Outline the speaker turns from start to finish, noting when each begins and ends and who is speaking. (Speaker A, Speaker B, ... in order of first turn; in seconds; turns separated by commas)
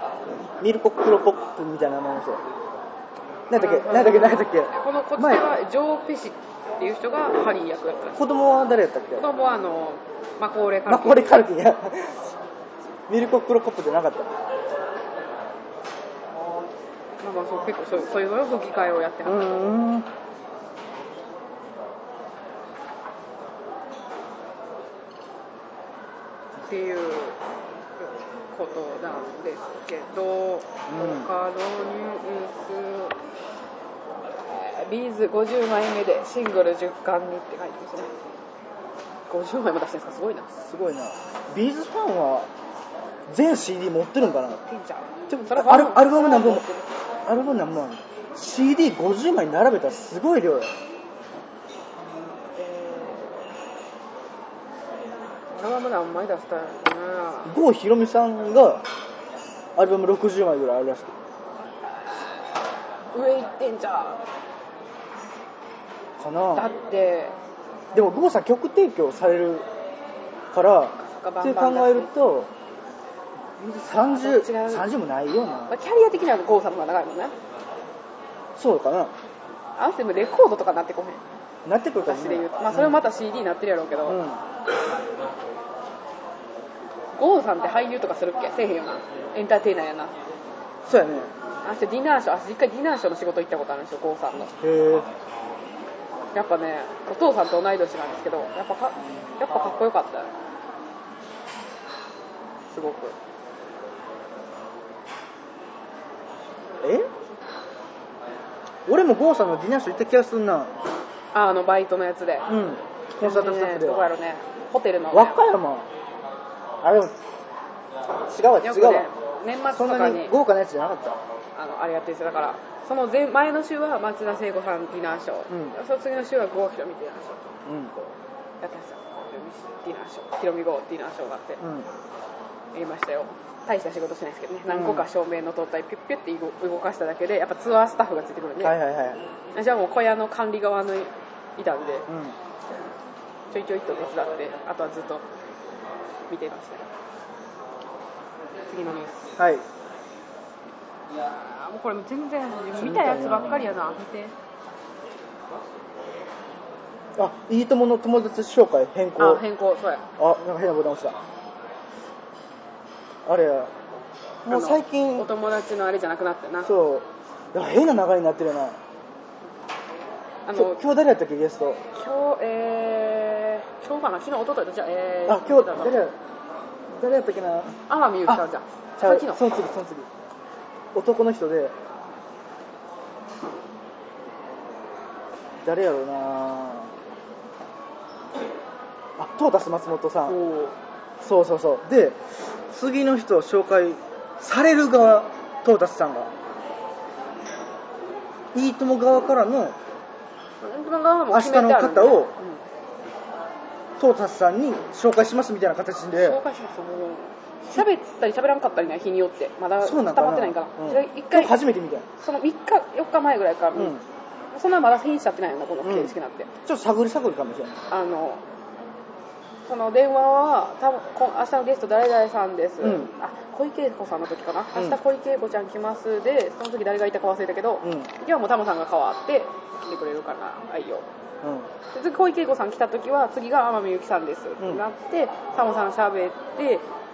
Speaker A: 0.6-2.4, Speaker A: 3.5-5.5, Speaker B: 3.5-8.2, Speaker A: 8.1-9.2, Speaker B: 9.2-11.4, Speaker A: 10.9-12.3, Speaker A: 13.1-14.3, Speaker B: 17.2-19.7, Speaker A: 19.2-20.1, Speaker B: 26.7-27.4, Speaker B: 28.0-33.1, Speaker A: 30.9-31.3, Speaker B: 34.5-38.1, Speaker B: 39.3-40.5, Speaker A: 40.5-42.5, Speaker A: 43.3-44.6, Speaker B: 44.6-46.9, Speaker A: 45.3-46.6, Speaker A: 47.2-50.7, Speaker B: 52.1-53.5, Speaker B: 55.5-57.5, Speaker A: 57.4-58.8, Speaker A: 59.8-61.1, Speaker B: 63.1-64.2, Speaker A: 66.2-66.7, Speaker B: 66.5-67.3, Speaker A: 67.9-69.7, Speaker A: 70.5-72.5, Speaker B: 71.0-72.1, Speaker A: 73.6-75.7, Speaker B: 74.1-74.9, Speaker B: 75.7-77.3, Speaker A: 78.5-79.1, Speaker B: 79.8-81.2, Speaker A: 81.6-83.0, Speaker B: 82.0-84.2, Speaker A: 84.0-84.4, Speaker B: 87.1-90.1, Speaker A: 90.8-91.3, Speaker B: 91.6-94.5, Speaker A: 94.6-95.1, Speaker B: 96.3-100.3, Speaker A: 102.7-103.1, Speaker A: 106.8-107.1, Speaker A: 108.8-110.7, Speaker B: 111.3-112.5, Speaker A: 112.5-114.0, Speaker B: 113.2-115.4, Speaker A: 115.1-115.9, Speaker A: 116.8-117.1, Speaker A: 118.3-119.1, Speaker B: 118.6-120.3, Speaker A: 119.7-121.2, Speaker B: 121.5-127.5, Speaker A: 125.5-125.7, Speaker A: 127.7-128.1, Speaker B: 128.6-131.6, Speaker A: 131.6-131.9, Speaker B: 132.7-138.8, Speaker A: 134.7-135.0, Speaker A: 138.6-139.2, Speaker B: 139.5-142.1, Speaker A: 142.1-142.3, Speaker B: 143.5-145.2, Speaker B: 146.3-146.9, Speaker B: 148.7-149.3, Speaker A: 149.4-149.6, Speaker B: 151.2-154.3, Speaker A: 152.8-153.7, Speaker A: 157.2-159.4, Speaker B: 159.2-160.1, Speaker A: 160.2-161.2, Speaker A: 163.2-163.7, Speaker A: 164.4-165.3, Speaker B: 164.5-166.7, Speaker A: 166.6-168.8, Speaker B: 170.4-170.8, Speaker A: 170.5-171.8, Speaker B: 171.9-175.9, Speaker A: 175.3-176.2, Speaker A: 176.9-178.4, Speaker B: 177.9-179.4, Speaker A: 179.0-180.1, Speaker A: 180.9-181.7, Speaker A: 185.6-186.9, Speaker A: 189.2-190.4, Speaker B: 190.3-190.7, Speaker A: 191.2-196.3, Speaker A: 198.5-199.8, Speaker B: 200.6-202.6, Speaker A: 201.3-202.3, Speaker A: 204.0-206.4, Speaker B: 206.2-211.5, Speaker A: 209.8-212.1, Speaker B: 212.2-214.0, Speaker A: 213.7-214.0, Speaker B: 214.5-216.5, Speaker A: 215.8-216.1, Speaker A: 216.6-217.8, Speaker B: 217.9-218.4, Speaker B: 219.7-231.1, Speaker A: 222.8-223.1, Speaker A: 227.8-228.1, Speaker A: 231.4-231.7, Speaker B: 231.9-236.8